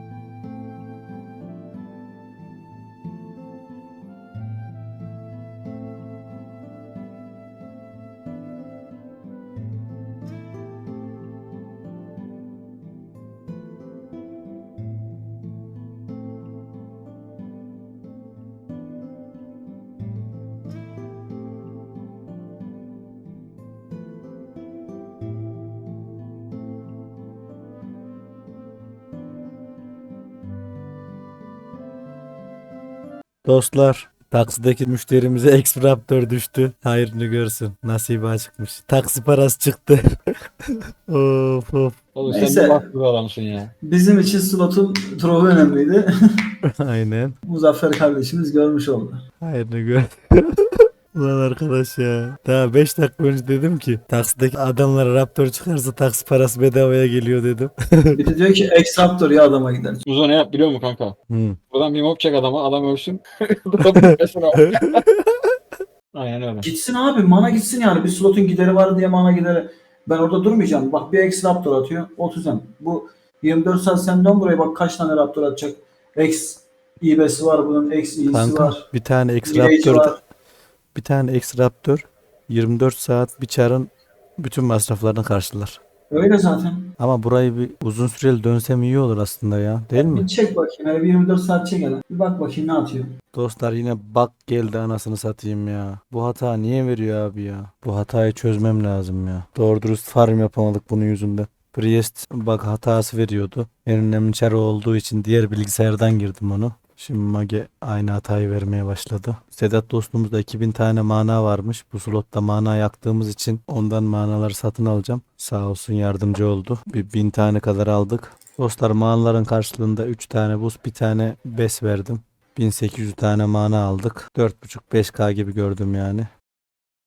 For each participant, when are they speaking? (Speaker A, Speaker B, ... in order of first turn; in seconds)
Speaker A: 33.5-42.0, 46.6-47.4, 49.4-58.2, 61.3-61.6, 78.3-80.2, 81.0-85.8, 87.0-90.3, 93.3-126.3
Speaker B: 42.1-43.7, 60.0-61.2, 61.7-65.0, 66.1-66.7
Speaker C: 42.3-42.9, 43.8-46.5, 47.5-49.2, 58.1-60.0, 66.6-78.8, 79.5-80.2, 86.1-86.9, 90.0-93.1